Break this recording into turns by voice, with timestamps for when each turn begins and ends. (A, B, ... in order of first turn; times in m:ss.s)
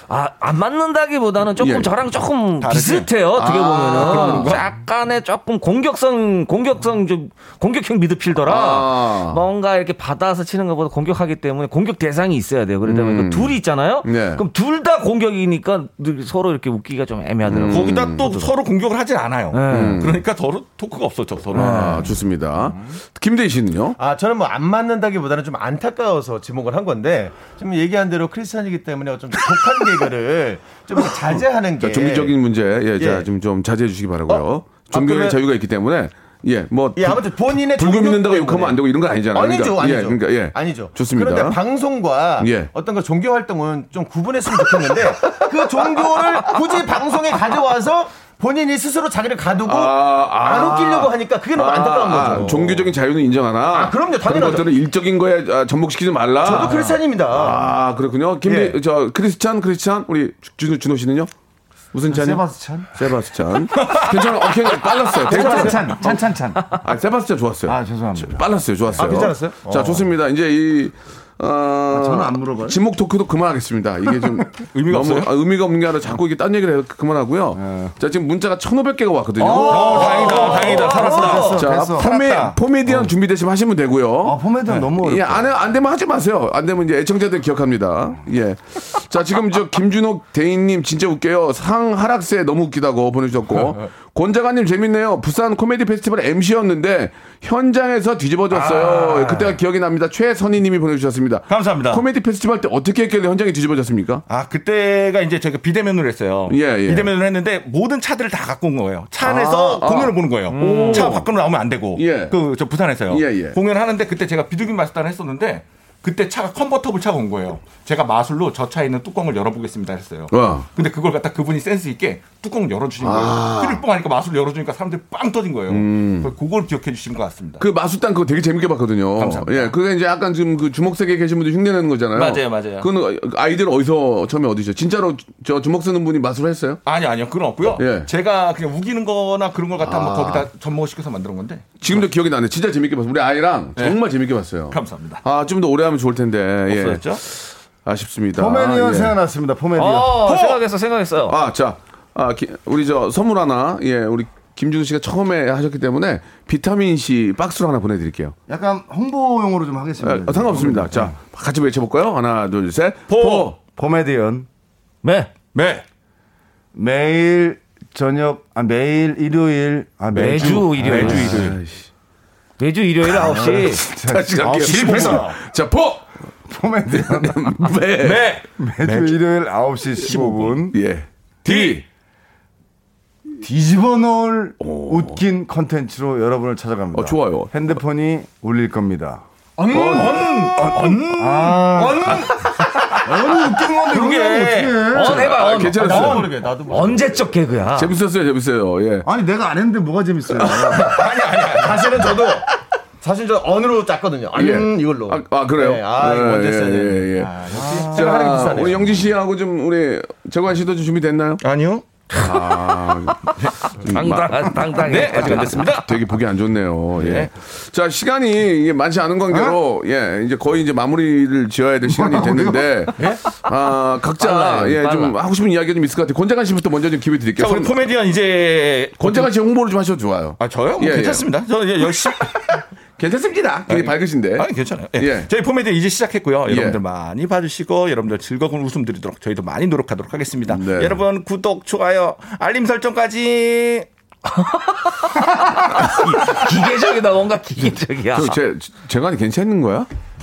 0:00.1-0:18.5 A
0:01.6-0:01.9 B
0:02.6-0:03.1 C
0:03.4-0:04.6 B
0:04.0-0:04.6 C
0:08.4-0:09.4 B
0:12.8-0:14.4 B
0:17.5-0:18.2 B
0:17.7-0:22.0 C
0:19.5-0:20.0 A
0:19.7-0:20.2 B
0:21.5-0:24.0 B
0:21.6-0:22.1 A
0:24.0-0:32.4 D
0:31.8-0:41.6 B
0:33.0-0:33.3 D
0:34.3-0:35.4 D
0:37.0-0:38.8 D
0:39.3-0:52.9 D
0:42.4-0:42.7 B
0:49.6-1:01.3 B
0:53.7-0:54.7 D
0:56.4-0:57.7 D
0:58.4-0:58.8 D
1:01.9-1:24.4 B
1:02.1-1:02.9 E
1:03.8-1:04.8 C
1:05.3-1:06.7 E
1:07.7-1:09.3 E
1:09.0-1:10.1 D
1:11.9-1:12.8 E
1:14.7-1:15.3 C
1:17.5-1:17.9 E
1:19.4-1:23.1 E
1:19.4-1:21.6 C
1:20.0-1:21.6 D
1:24.2-1:25.5 E
1:25.0-1:44.2 B
1:38.6-1:39.4 C
1:41.5-1:42.0 C
1:44.3-2:07.6 C
1:46.5-1:47.1 B
1:49.2-1:51.3 B
1:50.5-1:51.2 A
1:52.0-1:52.4 B
1:53.1-1:53.6 B
2:00.3-2:00.7 B
2:03.0-2:03.8 B
2:05.7-2:06.3 B
2:07.6-2:16.8 B
2:09.2-2:09.7 C
2:12.1-2:12.9 C
2:16.8-2:22.0 C
2:17.8-2:18.1 B
2:19.8-2:20.5 B
2:21.8-2:29.2 B
2:24.7-2:25.2 C
2:26.7-2:27.2 C
2:28.4-2:30.4 E
2:29.8-2:31.4 A
2:30.2-2:30.6 C
2:31.3-2:38.4 B
2:38.5-2:41.2 E
2:40.0-2:43.6 B
2:43.1-2:43.5 C
2:43.8-2:44.5 E
2:45.0-2:45.3 A
2:45.5-2:45.8 C
2:46.7-2:51.4 E
2:50.1-2:51.6 A
2:50.4-2:51.6 C
2:51.1-2:51.9 B
2:52.6-2:53.8 A
2:53.4-2:55.4 E
2:54.0-2:56.0 B
2:54.5-2:55.3 C
2:56.5-2:57.5 E
2:56.9-2:58.4 B
2:58.0-2:59.2 C
2:58.6-3:00.8 E
3:00.0-3:00.6 C
3:00.7-3:01.8 B
3:01.5-3:01.8 C
3:03.4-3:09.2 E
3:04.6-3:05.2 B
3:06.9-3:07.5 B
3:09.6-3:13.1 C
3:09.7-3:10.3 B
3:10.6-3:12.2 E
3:13.0-3:15.3 E
3:13.9-3:14.9 C
3:14.9-3:17.9 A
3:15.1-3:16.3 B
3:15.8-3:17.3 D
3:17.8-3:19.1 B
3:19.0-3:21.0 E
3:20.3-3:21.0 B
3:20.8-3:22.0 C
3:21.5-3:22.5 D
3:23.0-3:28.9 D
3:24.3-3:31.4 B
3:27.4-3:27.6 C
3:27.5-3:28.3 E
3:31.4-3:31.9 C
3:32.1-3:34.6 B
3:32.1-3:35.8 A
3:34.8-3:36.0 C
3:35.3-3:47.7 B
3:37.0-3:37.3 C
3:41.9-3:42.8 E
3:44.2-3:45.2 A
3:47.4-3:49.3 C
3:49.0-3:51.3 B
3:50.4-3:52.6 C
3:53.0-3:55.3 B
3:53.7-4:03.9 C
3:56.5-3:56.8 B
4:00.5-4:01.0 B
4:04.3-4:08.4 A
4:08.1-4:09.9 B